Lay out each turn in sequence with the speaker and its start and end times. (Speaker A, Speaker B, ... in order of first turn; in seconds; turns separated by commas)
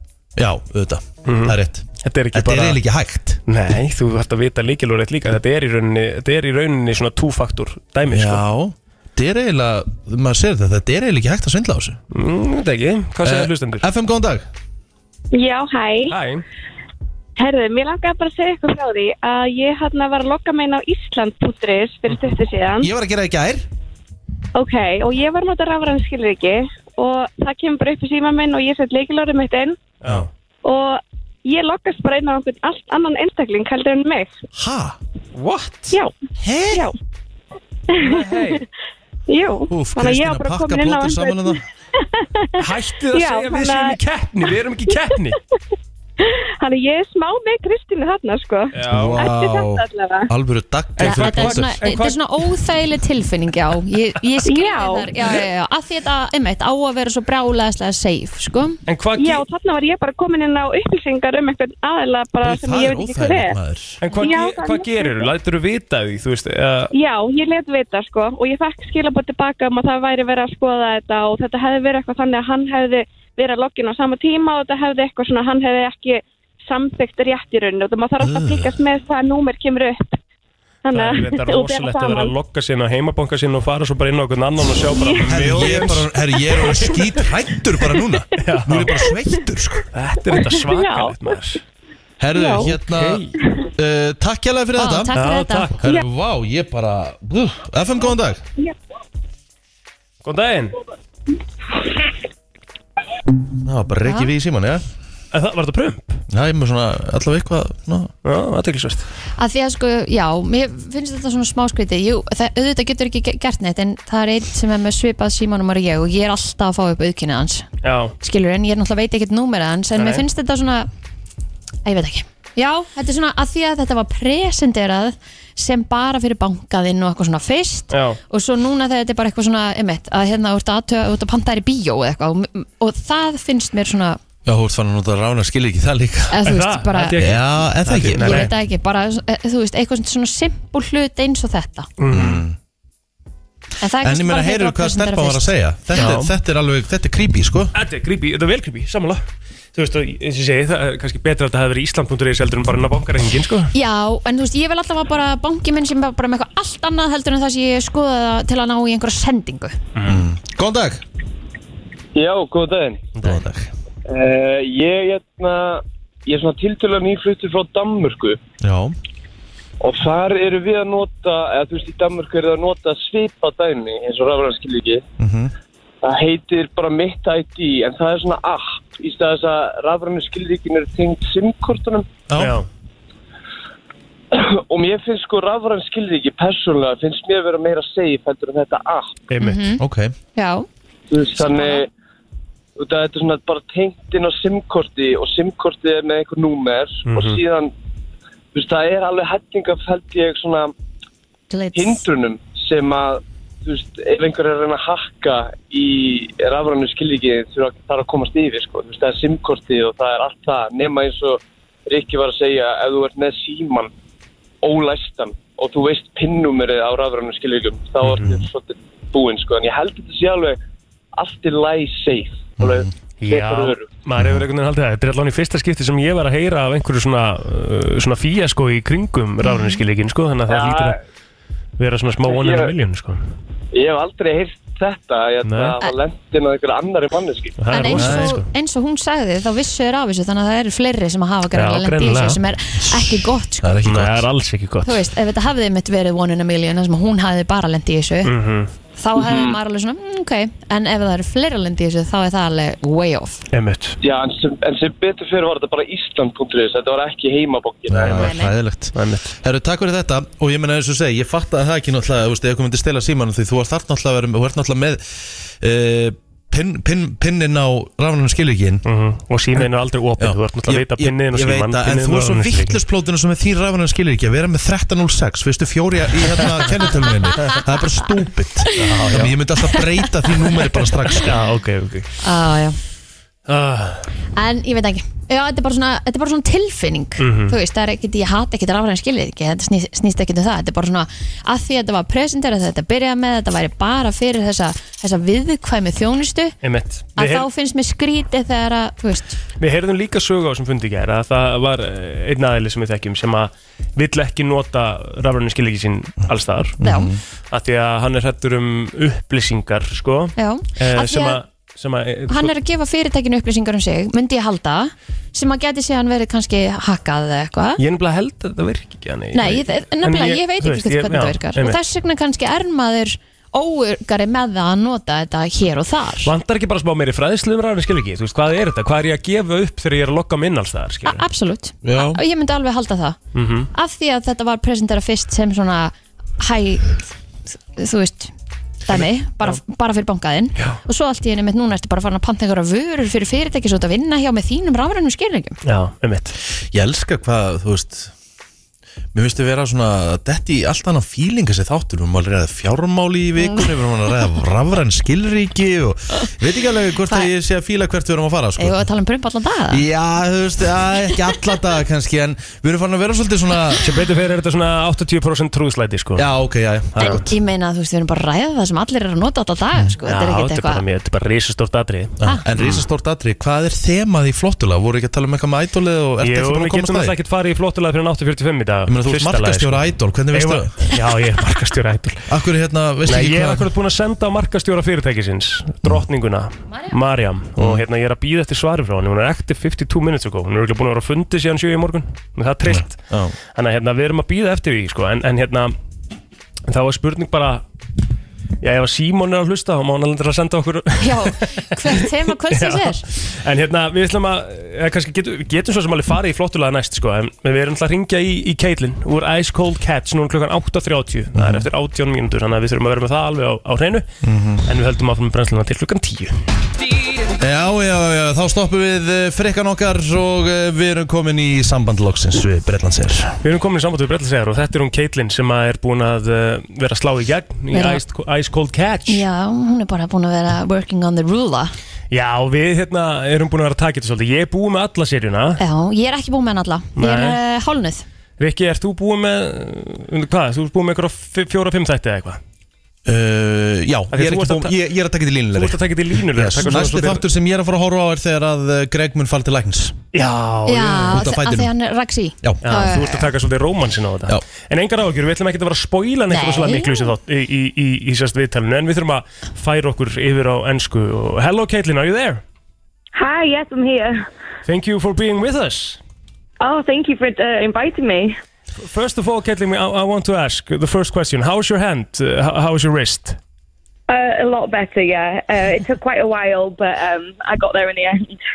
Speaker A: 0.3-3.4, Speaker B: 1.2-2.8, Speaker B: 3.5-8.4, Speaker A: 8.1-12.0, Speaker B: 12.1-13.8, Speaker A: 13.2-14.4, Speaker C: 15.3-16.1, Speaker B: 16.1-16.4, Speaker C: 17.4-22.9, Speaker A: 22.8-23.6, Speaker C: 24.5-29.8, Speaker B: 30.0-30.3, Speaker C: 30.6-34.3, Speaker A: 34.5-35.0, Speaker B: 35.4-36.0, Speaker A: 36.4-36.9, Speaker C: 37.9-38.6, Speaker B: 38.0-38.6, Speaker C: 39.3-41.6, Speaker A: 39.7-41.6, Speaker C: 42.1-44.0, Speaker B: 42.6-45.4, Speaker C: 46.2-50.3, Speaker B: 48.7-49.2, Speaker A: 48.8-51.8, Speaker B: 51.0-52.4, Speaker D: 51.0-58.8, Speaker C: 54.5-55.4, Speaker B: 58.9-59.4, Speaker C: 59.1-63.5, Speaker A: 62.4-64.0, Speaker B: 64.0-66.9, Speaker C: 64.1-65.3, Speaker C: 66.9-80.2, Speaker A: 78.2-78.7, Speaker C: 80.8-82.3, Speaker B: 80.9-86.1, Speaker C: 84.9-85.6, Speaker A: 85.2-89.8, Speaker B: 88.4-89.0, Speaker B: 89.9-91.6, Speaker C: 90.5-91.2, Speaker A: 92.2-93.2, Speaker C: 92.3-92.7, Speaker B: 92.6-93.3, Speaker A: 93.8-95.1, Speaker D: 94.8-95.7, Speaker B: 95.1-95.8, Speaker A: 95.8-98.4, Speaker B: 100.2-100.8, Speaker A: 103.6-104.8, Speaker B: 105.3-106.2, Speaker A: 106.3-108.1, Speaker B: 108.2-109.0, Speaker D: 109.4-117.7, Speaker B: 117.8-118.1, Speaker D: 118.2-120.9, Speaker B: 119.9-120.2, Speaker D: 121.8-134.2, Speaker B: 127.9-128.2, Speaker A: 134.4-136.4, Speaker D: 136.3-137.2, Speaker B: 136.4-138.5, Speaker A: 137.2-138.5, Speaker D: 138.2-141.9, Speaker B: 142.0-142.4, Speaker A: 142.1-142.6, Speaker D: 143.8-145.5, Speaker A: 144.0-147.7, Speaker B: 145.9-146.3, Speaker B: 147.7-149.2, Speaker B: 149.7-153.7, Speaker D: 153.7-159.8, Speaker B: 159.9-160.2, Speaker A: 160.0-161.0, Speaker E: 162.1-163.1, Speaker B: 163.2-163.4, Speaker A: 163.2-163.7, Speaker E: 164.1-168.4, Speaker A: 168.6-168.9, Speaker E: 169.8-175.0, Speaker A: 175.2-175.5, Speaker E: 176.0-182.1, Speaker A: 182.3-182.6, Speaker B: 182.4-182.7, Speaker E: 184.3-189.2, Speaker B: 189.3-189.7, Speaker D: 189.4-189.8, Speaker A: 189.8-190.1, Speaker D: 190.3-190.7, Speaker E: 191.1-191.9, Speaker D: 191.4-191.8, Speaker E: 192.8-197.7, Speaker B: 197.1-197.4, Speaker E: 198.5-200.7, Speaker D: 201.5-202.0, Speaker E: 201.7-213.9, Speaker E: 214.6-220.6, Speaker B: 218.0-218.3, Speaker E: 221.2-223.9, Speaker A: 222.6-222.9, Speaker B: 223.2-231.0, Speaker A: 224.2-224.4, Speaker D: 229.4-229.8, Speaker E: 230.5-231.0, Speaker B: 231.8-233.2, Speaker E: 232.2-232.7, Speaker E: 233.7-237.6, Speaker B: 235.4-235.8, Speaker B: 237.6-238.4, Speaker D: 237.7-243.8, Speaker A: 237.9-238.4, Speaker B: 241.5-242.4, Speaker A: 242.8-244.3, Speaker B: 243.8-245.0, Speaker D: 244.8-248.3, Speaker B: 248.2-248.7, Speaker D: 248.9-253.4, Speaker E: 249.2-249.5, Speaker B: 253.5-253.9, Speaker E: 254.0-258.1, Speaker A: 257.9-268.8, Speaker B: 258.0-258.3, Speaker D: 258.0-258.5, Speaker B: 258.9-259.3, Speaker B: 268.8-272.8, Speaker A: 270.2-281.3, Speaker B: 278.8-279.3, Speaker B: 281.2-282.1, Speaker D: 282.2-282.8, Speaker B: 283.5-284.1, Speaker D: 284.3-296.6, Speaker B: 287.2-287.6, Speaker B: 296.6-297.5, Speaker D: 297.1-299.4, Speaker B: 299.6-306.8, Speaker A: 306.8-307.2, Speaker D: 306.8-307.1, Speaker B: 307.5-312.5, Speaker D: 310.4-311.4, Speaker D: 312.3-317.8, Speaker B: 317.8-321.8, Speaker D: 319.3-326.3, Speaker B: 326.2-331.2, Speaker D: 331.1-333.2, Speaker A: 331.8-332.2, Speaker B: 333.3-333.7, Speaker D: 333.7-337.0, Speaker D: 337.8-338.3, Speaker D: 338.9-345.6, Speaker B: 338.9-339.6, Speaker B: 345.6-346.4, Speaker A: 346.7-348.1, Speaker A: 349.1-358.8, Speaker D: 353.4-353.7, Speaker D: 358.6-359.8, Speaker A: 359.7-363.9, Speaker B: 363.8-366.3, Speaker A: 366.2-367.3, Speaker D: 367.0-370.8, Speaker B: 370.0-372.8, Speaker A: 372.2-377.1, Speaker B: 376.2-382.3, Speaker A: 378.9-380.7, Speaker A: 382.3-383.7, Speaker B: 383.1-393.0, Speaker A: 387.6-387.8, Speaker A: 392.7-393.4, Speaker B: 393.5-395.7, Speaker B: 396.7-397.6, Speaker B: 398.6-414.1, Speaker D: 401.0-403.0, Speaker A: 411.3-411.7, Speaker A: 414.2-414.6, Speaker B: 414.7-416.4, Speaker A: 417.4-423.4, Speaker B: 423.4-429.2, Speaker D: 427.7-428.0, Speaker D: 429.1-431.7, Speaker B: 432.1-435.6, Speaker D: 435.6-438.0, Speaker B: 436.9-437.4, Speaker B: 438.4-442.4, Speaker A: 443.1-450.0, Speaker B: 444.1-444.8, Speaker B: 445.5-447.2, Speaker B: 450.1-451.2, Speaker D: 450.6-453.3, Speaker A: 451.1-451.7, Speaker B: 452.6-462.4, Speaker D: 456.3-457.1, Speaker F: 463.1-464.2, Speaker B: 464.6-466.0, Speaker F: 466.6-468.4, Speaker B: 468.8-473.4, Speaker F: 474.1-478.4